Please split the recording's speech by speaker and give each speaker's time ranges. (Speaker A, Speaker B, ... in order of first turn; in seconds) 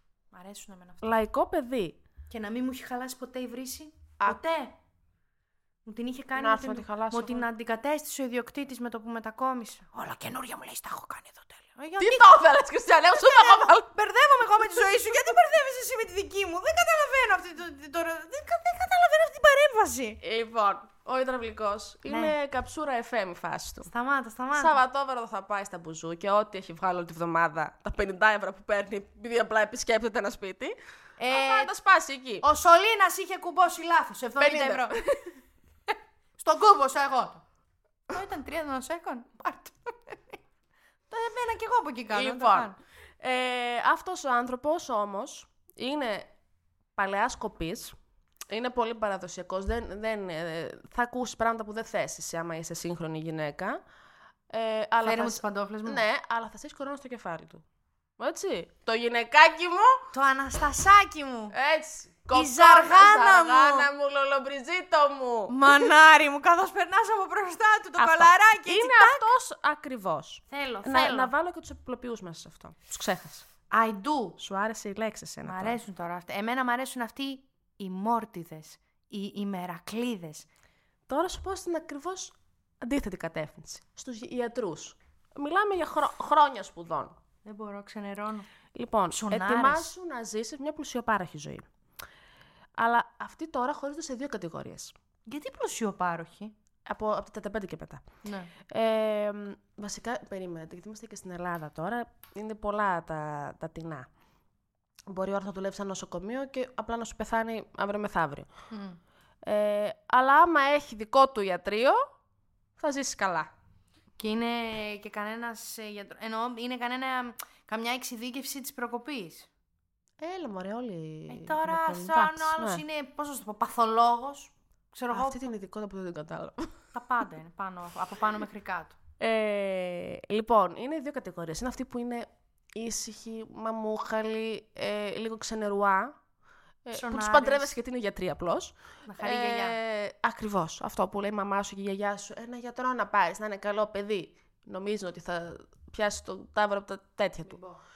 Speaker A: 0.3-1.2, 2.3-4.7, 5.9-12.4, 13.1-20.2, 22.1-22.4, 23.9-24.8, 31.2-31.7, 32.4-35.0, 36.4-37.4, 38.1-40.4, 41.1-42.8, 55.0-56.0, 60.1-61.5, 62.3-63.9, 65.5-69.3, 70.5-71.3, 73.7-74.4, 75.4-80.5, 87.5-88.5, 89.1-89.9, 95.3-96.5, 98.2-98.5, 108.7-109.0, 114.2-119.5, 121.3-125.4, 126.9-129.0, 136.9-137.7, 139.1-139.8, 147.5-147.8
Speaker B: 1.0-2.0, 6.4-7.5, 12.0-13.9, 20.2-23.9, 24.5-30.8, 31.3-32.5, 34.4-35.3, 42.1-46.3, 47.0-48.0, 48.5-53.8, 54.5-57.6, 58.2-60.1, 61.5-65.9, 68.0-73.5, 74.4-75.8, 81.1-87.2, 88.8-91.7, 92.8-95.0, 96.9-98.0, 98.6-104.1, 105.1-108.5, 109.4-112.0, 112.8-113.5, 120.2-122.8, 125.1-126.8, 129.2-136.2, 136.8-147.6